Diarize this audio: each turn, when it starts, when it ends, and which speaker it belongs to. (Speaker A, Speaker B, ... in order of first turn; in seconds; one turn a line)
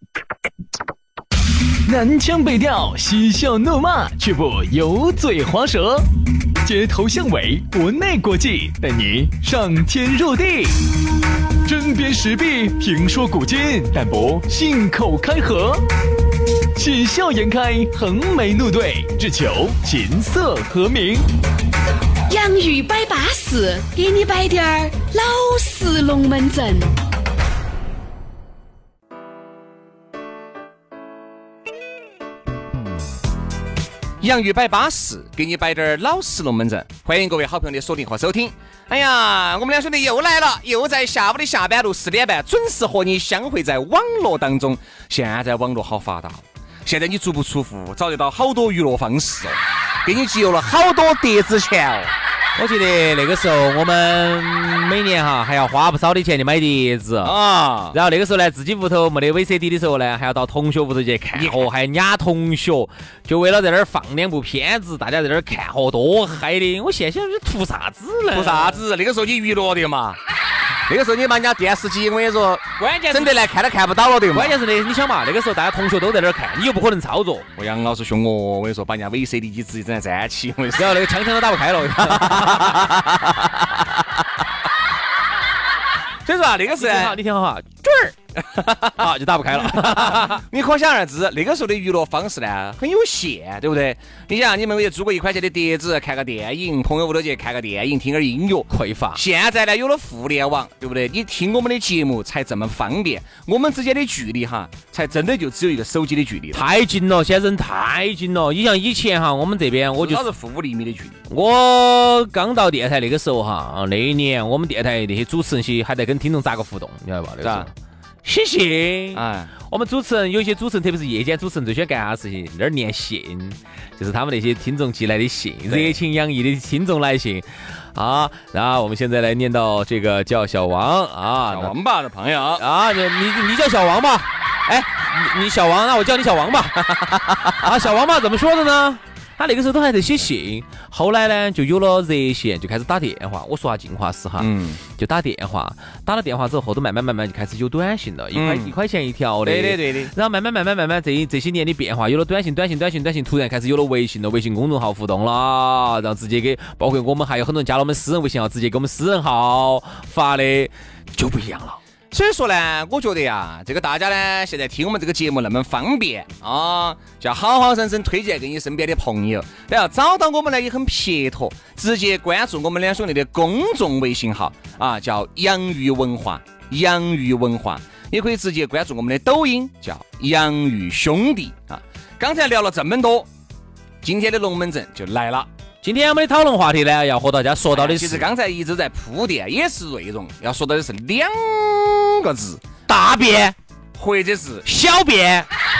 Speaker A: 1.8-11.0
Speaker A: 11.6-15.9
Speaker A: 16.7-21.3
Speaker B: 22.3-26.9
Speaker C: 34.2-52.1
Speaker D: 52.5-57.3
Speaker C: 57.2-58.0
Speaker D: 57.9-68.8
Speaker C: 61.3-61.6
Speaker C: 68.3-70.2
Speaker C: 70.8-74.6
Speaker D: 72.8-73.3
Speaker D: 74.3-77.5
Speaker C: 77.5-81.0
Speaker D: 80.8-83.7
Speaker C: 82.2-82.9
Speaker C: 86.2-87.2
Speaker D: 86.8-88.2
Speaker D: 88.7-90.4
Speaker C: 89.6-106.6
Speaker D: 98.7-99.2
Speaker D: 106.5-110.2
Speaker C: 110.0-111.2
Speaker D: 111.3-117.7
Speaker C: 117.4-117.7
Speaker D: 118.2-131.7
Speaker C: 119.1-119.5
Speaker C: 125.7-126.0
Speaker C: 131.5-132.6
Speaker D: 132.6-161.8
Speaker C: 144.4-144.8
Speaker C: 148.3-148.7
Speaker C: 149.4-150.1
Speaker C: 162.1-183.3
Speaker C: 184.0-185.5
Speaker D: 185.8-188.3
Speaker C: 187.7-192.6
Speaker D: 192.9-193.5
Speaker C: 193.9-194.7
Speaker D: 194.6-195.5